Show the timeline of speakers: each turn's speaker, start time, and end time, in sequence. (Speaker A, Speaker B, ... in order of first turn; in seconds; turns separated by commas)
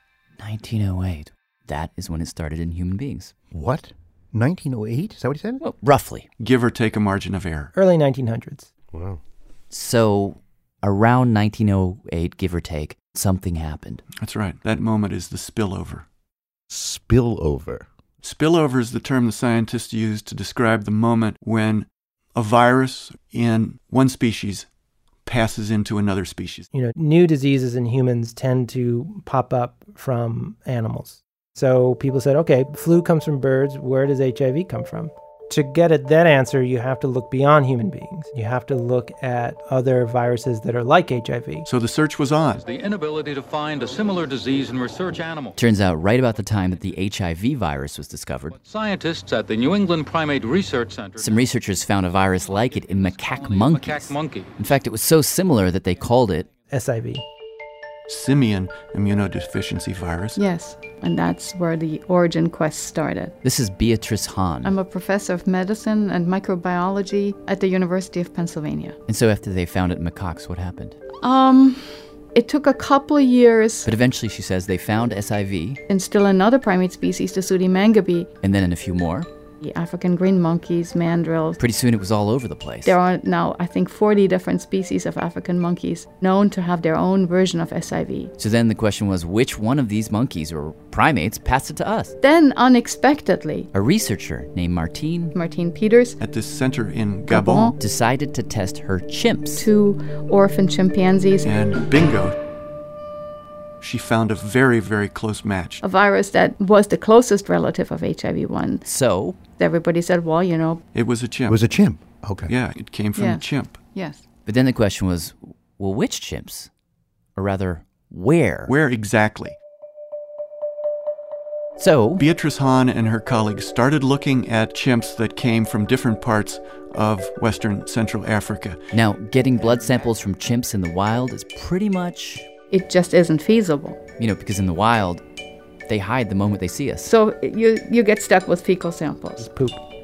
Speaker A: 0.4-3.3, Speaker B: 3.5-5.6, Speaker A: 5.6-6.3, Speaker C: 6.4-7.7, Speaker D: 7.7-8.7, Speaker B: 8.9-9.2, Speaker A: 9.7-14.0, Speaker C: 14.2-16.1, Speaker B: 16.7-17.9, Speaker C: 18.2-24.7, Speaker C: 25.2-26.7, Speaker D: 26.7-41.6, Speaker C: 41.6-42.6, Speaker E: 42.6-45.5, Speaker A: 45.5-48.5, Speaker E: 48.6-51.4, Speaker A: 51.2-56.5, Speaker E: 52.7-54.5, Speaker D: 56.7-57.2, Speaker C: 58.1-60.4, Speaker F: 60.4-63.3, Speaker A: 63.4-64.8, Speaker F: 64.6-69.0, Speaker A: 69.1-71.0, Speaker F: 71.2-73.9, Speaker A: 73.8-75.8, Speaker F: 75.9-78.3, Speaker A: 78.4-79.3, Speaker F: 79.6-81.6, Speaker A: 81.6-83.0, Speaker F: 82.8-88.3, Speaker A: 88.4-92.1, Speaker F: 92.2-93.7, Speaker A: 93.7-95.3, Speaker F: 95.3-96.2, Speaker C: 96.2-97.7, Speaker F: 97.3-97.7, Speaker A: 97.8-99.7, Speaker F: 99.6-101.6, Speaker C: 101.4-102.3, Speaker C: 103.8-105.8, Speaker F: 105.8-108.8, Speaker A: 108.8-109.4, Speaker F: 109.6-110.8, Speaker C: 110.9-111.6, Speaker B: 111.5-112.5, Speaker C: 112.5-113.8, Speaker F: 113.2-114.2, Speaker A: 114.5-116.7, Speaker A: 117.3-118.7, Speaker C: 118.7-119.5, Speaker A: 121.8-122.2, Speaker C: 122.2-128.8, Speaker A: 128.9-132.5, Speaker F: 132.7-134.0, Speaker A: 134.2-135.2, Speaker A: 135.9-137.1, Speaker F: 137.0-139.5, Speaker D: 139.4-139.8